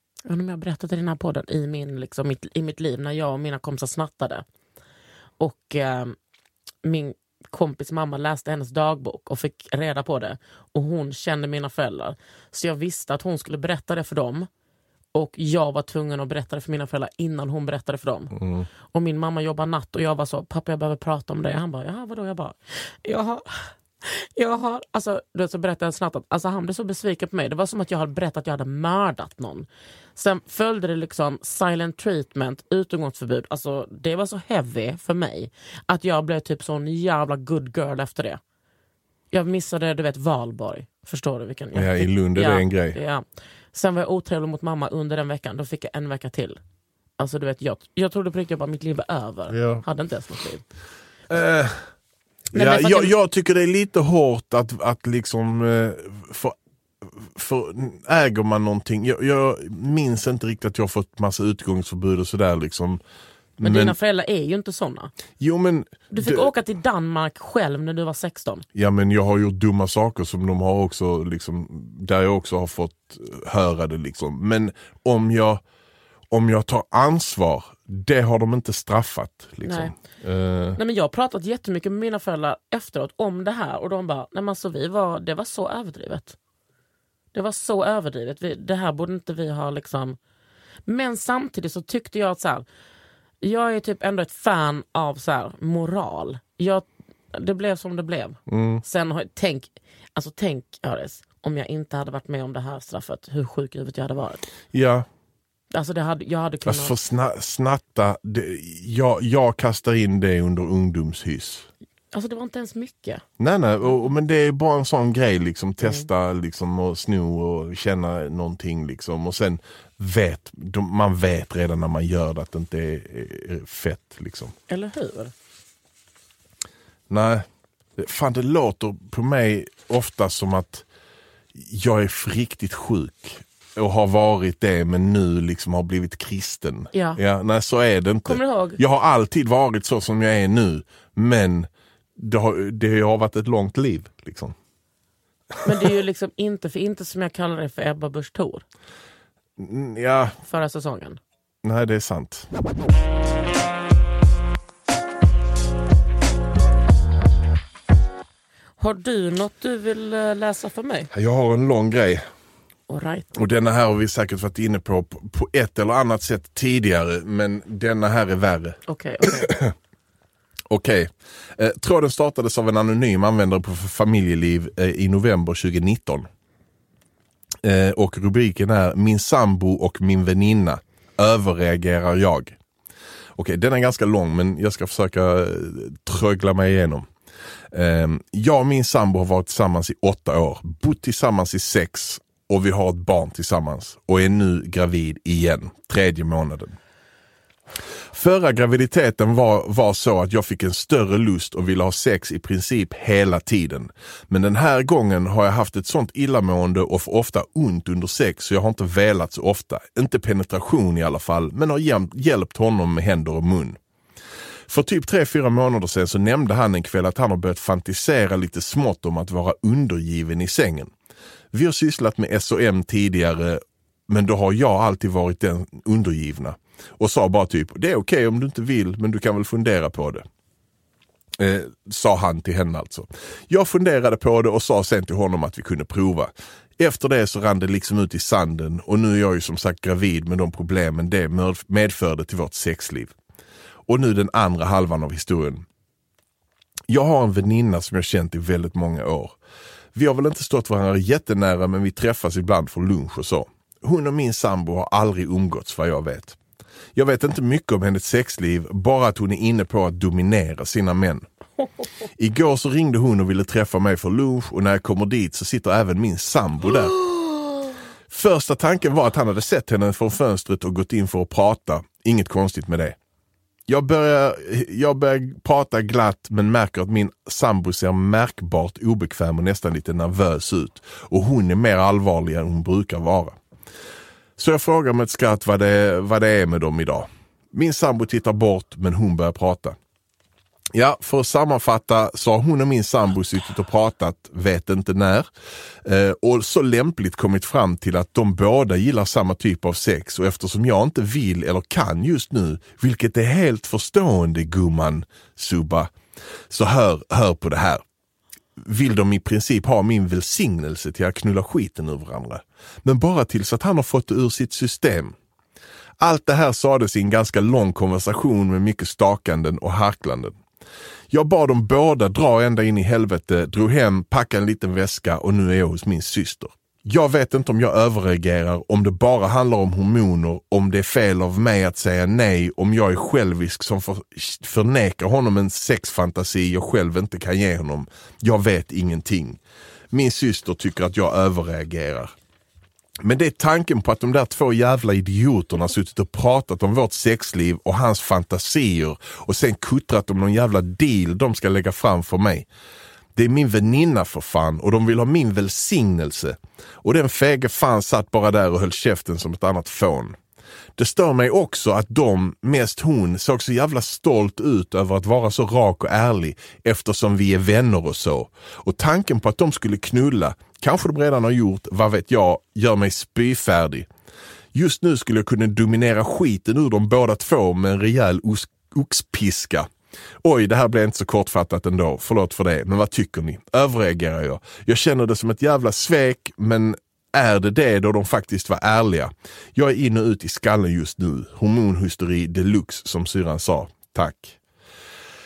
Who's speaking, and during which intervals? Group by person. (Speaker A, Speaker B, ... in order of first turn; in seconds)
Speaker A: 0.3-4.4, 5.4-6.2, 6.8-14.5, 15.1-38.4, 39.3-46.6, 47.2-50.6, 52.5-53.1, 63.6-65.1, 66.1-68.6, 79.6-79.9, 80.8-86.3, 87.3-90.2, 90.9-92.7, 93.4-104.5, 105.7-106.9, 112.1-113.2, 124.7-125.3, 136.9-137.2, 138.2-138.8, 145.6-148.6, 150.5-151.2, 158.8-161.1, 162.9-163.3, 168.9-169.5
Speaker B: 18.3-18.7, 41.7-43.0, 49.5-49.8, 51.3-51.9, 52.5-63.0, 63.6-64.0, 65.4-66.5, 68.7-75.6, 76.3-80.8, 98.5-98.8, 104.7-105.0, 106.7-111.7, 113.4-124.5, 127.1-127.5, 128.0-130.8, 131.5-144.5, 149.6-150.3, 151.6-152.5, 161.1-162.2, 163.3-169.7, 170.7-176.3, 177.6-182.6, 183.3-187.1, 187.7-196.8, 198.1-213.8, 214.7-220.9, 221.5-230.2, 231.4-243.1, 243.8-245.6, 246.9-249.4, 249.9-256.4, 256.9-261.2, 262.2-266.9, 268.1-273.0, 273.7-283.4, 284.4-289.8, 290.7-295.3, 295.8-305.9, 306.5-307.8, 308.6-315.1, 316.0-320.4, 321.1-339.4, 339.9-342.1, 343.0-352.5, 353.1-360.1, 360.8-373.9, 374.5-379.7, 380.2-394.4